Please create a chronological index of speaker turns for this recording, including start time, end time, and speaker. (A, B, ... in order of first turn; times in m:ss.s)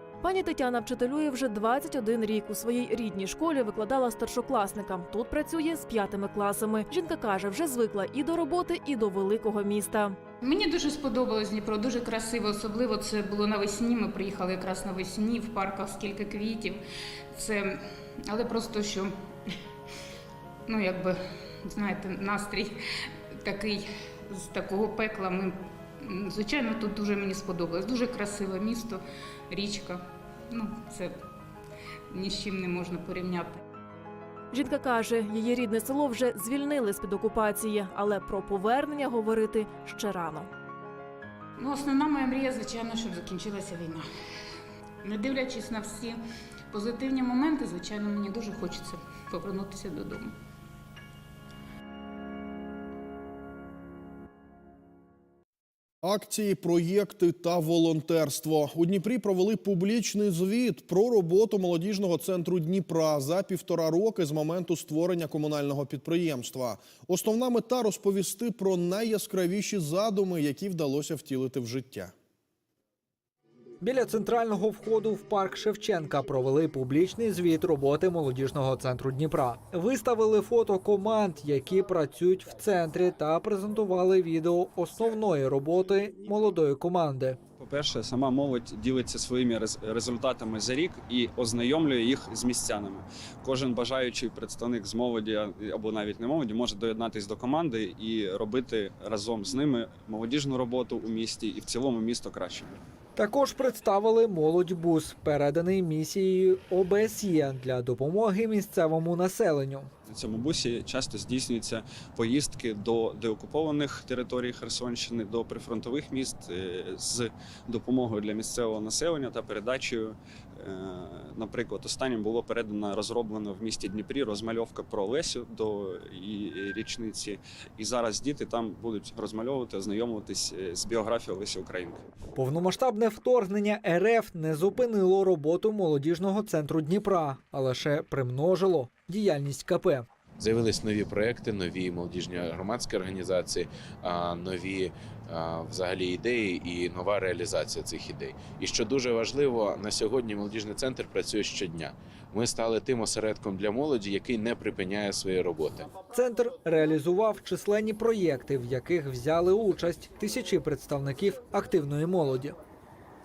0:00.2-0:10.2 A
0:10.4-0:16.8 B
0:17.3-0:19.1 B
0:20.7-0:22.8 B
0:23.4-0:31.2 B
0:32.1-0:33.6 B
0:34.5-0:40.5 A
0:41.6-0:44.0 B
0:45.0-0:46.2 B
0:46.7-0:50.3 B
0:56.0-1:12.1 C
1:13.8-1:27.4 D
1:27.6-1:42.7 E
1:43.2-1:49.9 D
1:50.1-2:00.1 E
2:00.7-2:11.9 E
2:12.4-2:20.1 D
2:20.4-2:35.9 F
2:36.1-2:42.6 D